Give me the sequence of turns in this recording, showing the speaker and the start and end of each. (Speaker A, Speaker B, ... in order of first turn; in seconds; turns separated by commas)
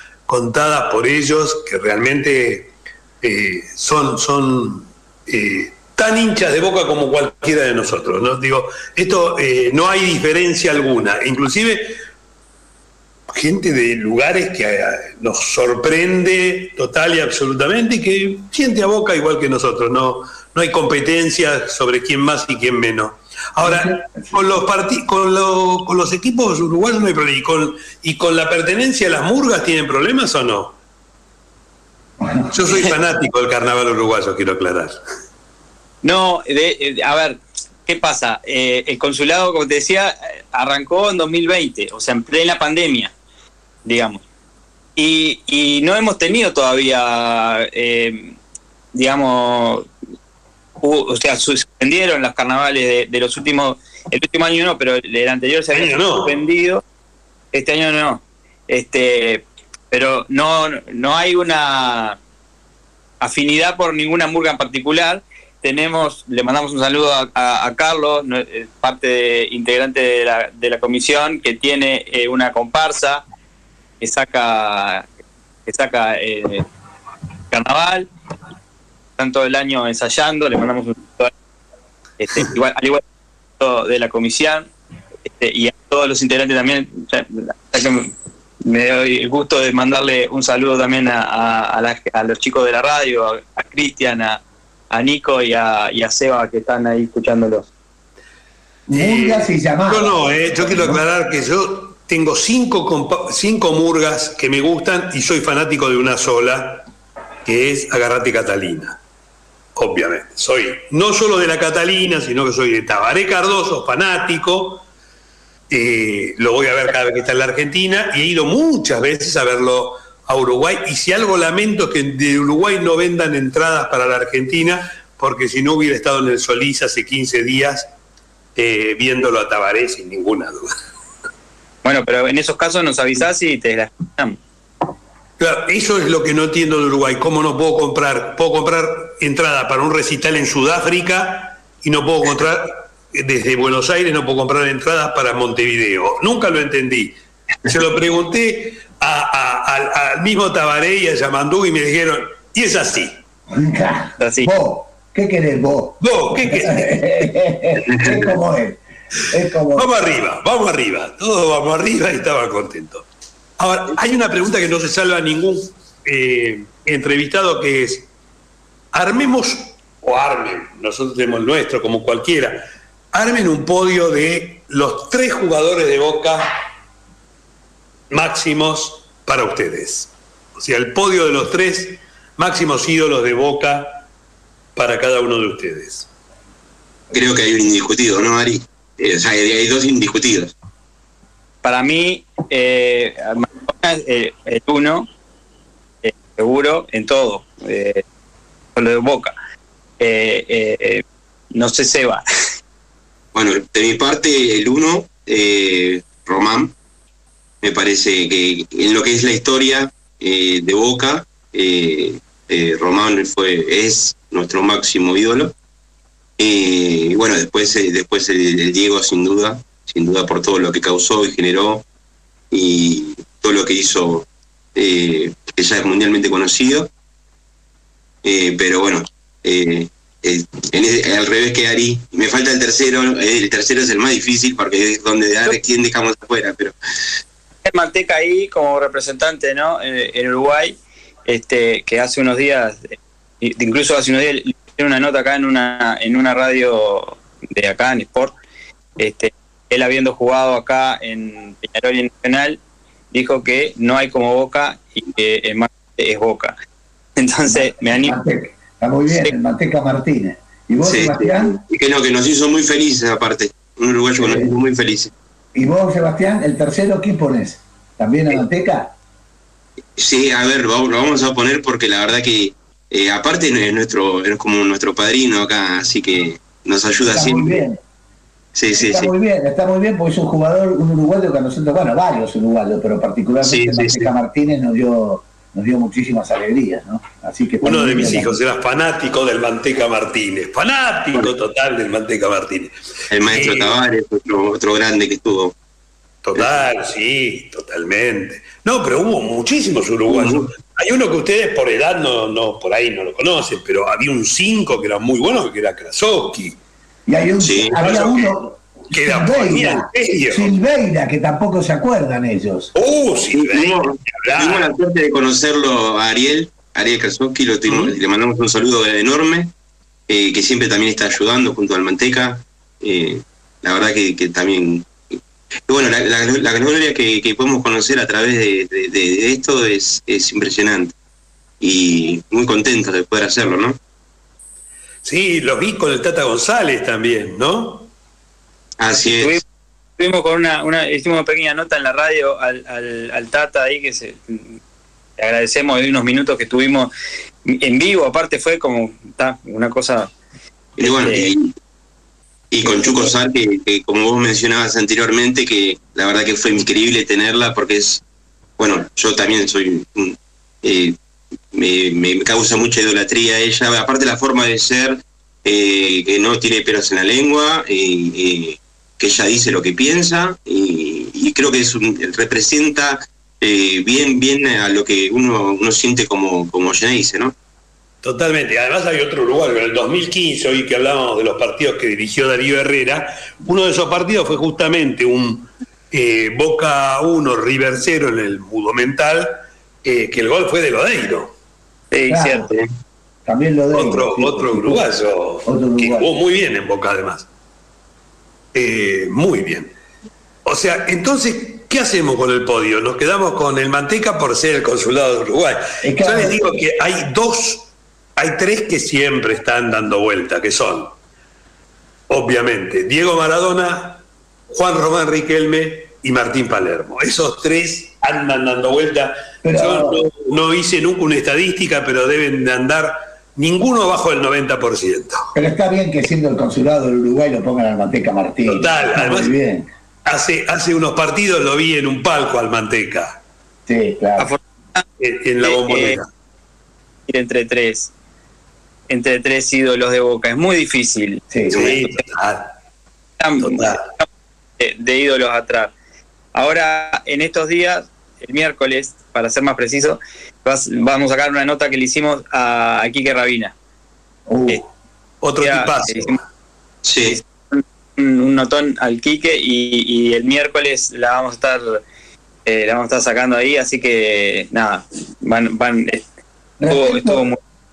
Speaker A: 0.3-11.9, Speaker A: 13.3-30.8, Speaker B: 23.6-24.6, Speaker B: 32.2-32.6, Speaker A: 32.5-35.0, Speaker C: 36.0-43.1, Speaker C: 43.9-44.2, Speaker C: 45.0-48.4, Speaker C: 48.9-49.9, Speaker C: 50.8-56.8, Speaker A: 55.7-56.4, Speaker C: 57.5-62.2, Speaker C: 63.2-73.2, Speaker C: 74.0-75.1, Speaker C: 75.7-76.7, Speaker C: 77.5-78.1, Speaker C: 79.2-81.3, Speaker C: 82.2-83.0, Speaker C: 83.6-84.7, Speaker C: 85.3-88.1, Speaker C: 88.6-97.7, Speaker B: 98.9-101.0, Speaker A: 98.9-106.9, Speaker A: 107.5-109.0, Speaker A: 109.8-114.8, Speaker A: 115.7-127.9, Speaker A: 128.6-130.7, Speaker C: 131.8-134.4, Speaker A: 135.4-153.2, Speaker B: 153.5-159.9, Speaker C: 154.2-154.5, Speaker A: 156.0-157.2, Speaker D: 158.0-158.2, Speaker A: 159.7-163.1, Speaker A: 163.6-168.1, Speaker A: 168.9-176.5, Speaker A: 178.1-184.1, Speaker A: 184.8-186.1, Speaker D: 187.1-190.6, Speaker C: 191.6-195.1, Speaker C: 196.0-198.0, Speaker C: 198.8-199.3, Speaker C: 200.0-202.2, Speaker D: 203.3-206.7, Speaker D: 207.6-215.5, Speaker D: 216.4-221.8, Speaker D: 222.5-226.9, Speaker D: 228.2-236.8, Speaker C: 237.7-248.4, Speaker C: 249.0-252.6, Speaker C: 253.1-256.6, Speaker C: 257.2-258.2, Speaker B: 257.5-261.6, Speaker D: 260.8-265.1, Speaker B: 264.2-264.5, Speaker B: 265.6-268.9, Speaker D: 270.0-277.6, Speaker B: 277.1-277.8, Speaker D: 278.6-279.1, Speaker B: 278.8-288.4, Speaker D: 283.4-284.1, Speaker A: 287.6-293.8, Speaker D: 293.1-295.6, Speaker A: 296.2-306.6, Speaker D: 296.4-296.7, Speaker D: 300.1-300.5, Speaker B: 307.1-312.7, Speaker D: 307.4-307.8, Speaker A: 307.8-308.3, Speaker A: 308.9-310.5, Speaker A: 312.7-314.7, Speaker D: 313.3-319.5, Speaker A: 317.7-318.0, Speaker D: 320.1-324.9, Speaker D: 325.7-330.9, Speaker D: 331.6-333.8, Speaker A: 335.0-337.9, Speaker D: 338.8-339.4, Speaker C: 339.2-339.4, Speaker C: 340.0-344.5, Speaker C: 345.2-346.9, Speaker C: 347.4-350.1, Speaker D: 350.8-351.5, Speaker C: 350.8-351.3, Speaker D: 352.5-358.0, Speaker C: 352.6-353.1, Speaker D: 358.6-361.0, Speaker D: 361.5-377.3, Speaker A: 378.0-391.3, Speaker C: 391.9-392.6, Speaker B: 392.1-392.5, Speaker B: 393.3-394.9, Speaker A: 393.7-397.3, Speaker B: 395.4-396.1, Speaker A: 398.5-399.7, Speaker A: 400.4-411.0, Speaker B: 405.8-406.6, Speaker A: 412.1-425.3, Speaker B: 419.4-420.1, Speaker B: 425.4-429.7, Speaker A: 428.5-429.3, Speaker A: 430.1-433.2, Speaker B: 433.7-434.3, Speaker C: 434.2-434.8, Speaker A: 435.0-436.1, Speaker C: 435.4-436.0, Speaker C: 437.1-437.9, Speaker C: 438.9-441.9, Speaker B: 441.3-441.8, Speaker A: 441.5-442.5, Speaker C: 443.2-444.1, Speaker A: 443.4-443.9, Speaker C: 444.6-445.7, Speaker C: 446.3-453.6, Speaker B: 454.3-454.7, Speaker A: 455.2-456.2, Speaker C: 455.4-456.2, Speaker D: 456.8-457.2, Speaker C: 457.1-461.8, Speaker C: 462.5-466.0, Speaker B: 466.6-467.3, Speaker C: 466.7-467.4